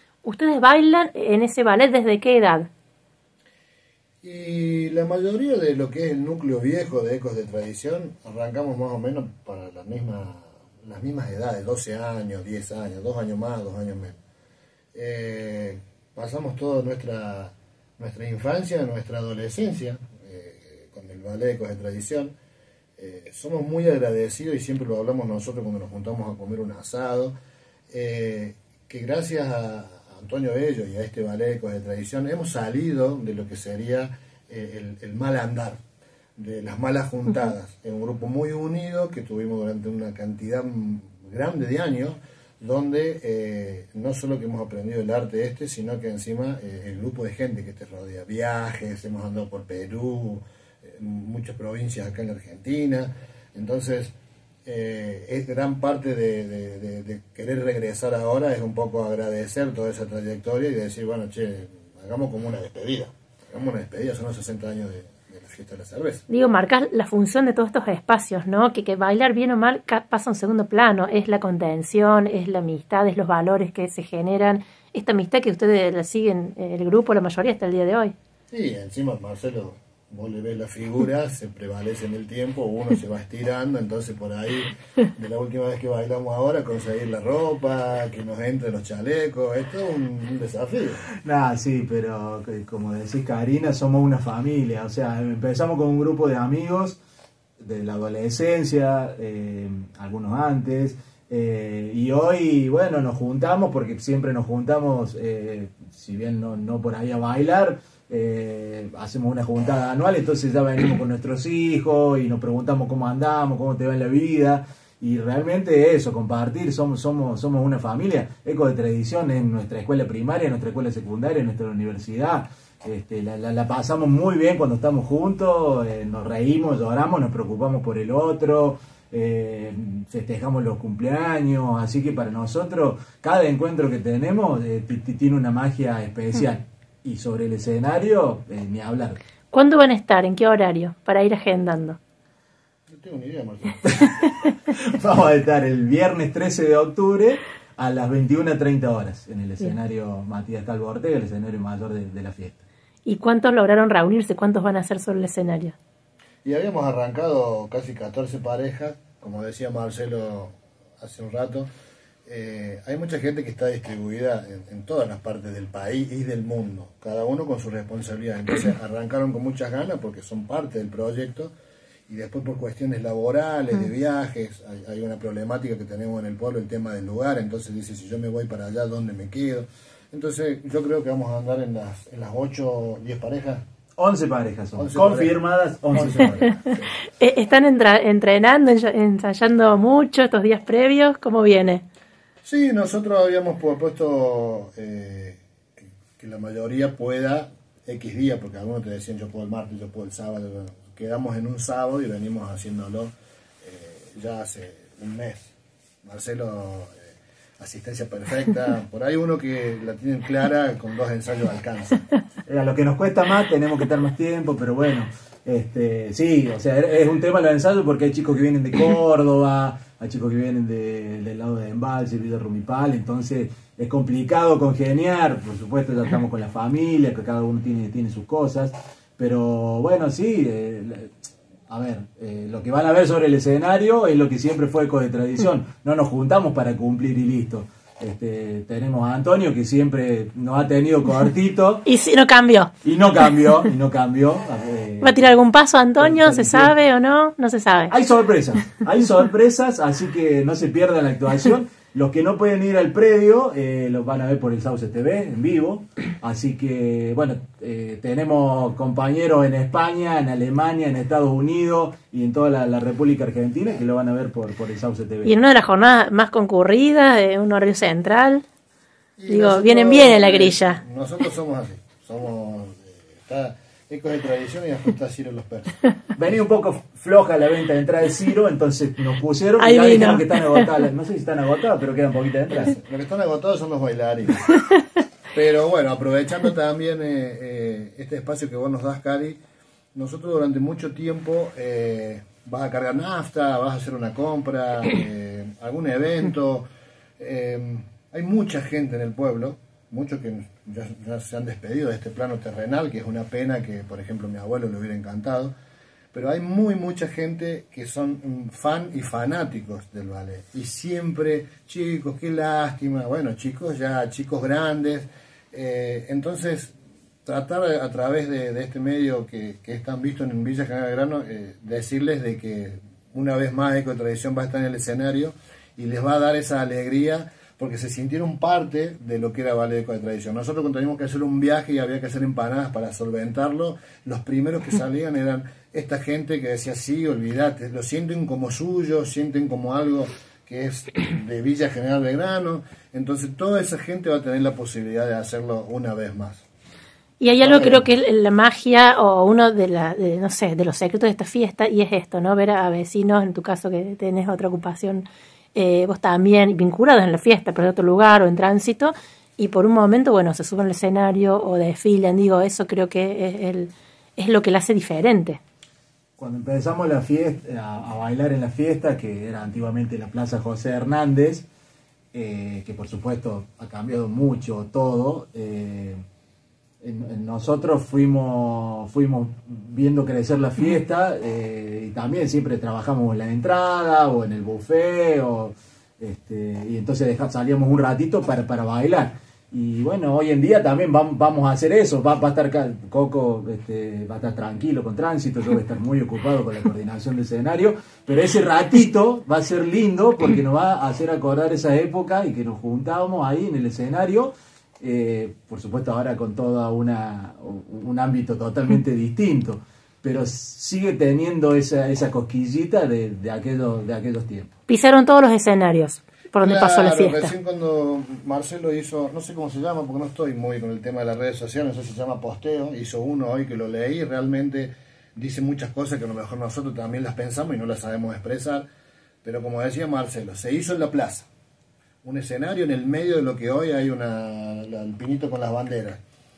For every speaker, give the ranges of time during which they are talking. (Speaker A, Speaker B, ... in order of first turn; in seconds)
Speaker A: 0.2-2.7, 66.3-78.1, 139.5-142.0, 153.0-155.7, 187.2-191.8, 241.8-242.7, 245.0-247.9, 265.2-268.4, 269.3-270.8, 279.6-280.6, 347.2-365.4, 414.7-417.3
Speaker B: 4.2-14.2, 14.9-22.3, 23.0-27.3, 27.9-35.8, 36.4-54.1, 54.6-66.2, 78.5-91.1, 142.9-144.1, 156.4-161.7, 162.2-171.5, 172.1-183.6, 184.8-185.4, 185.9-186.9, 192.4-195.4, 196.2-205.5, 206.0-212.0, 269.2-275.8, 282.5-284.5, 285.3-289.4, 289.9-296.7, 297.2-305.5, 306.1-316.7, 317.2-346.4, 347.4-347.9, 416.4-428.6, 429.2-431.3, 432.0-436.0
Speaker C: 91.2-97.0, 97.6-139.2, 144.0-152.6, 184.0-186.6, 212.5-231.1, 231.7-241.8, 242.8-245.3, 246.0-246.7, 247.9-265.4, 276.1-282.7, 366.2-371.4, 372.1-376.0, 376.8-414.5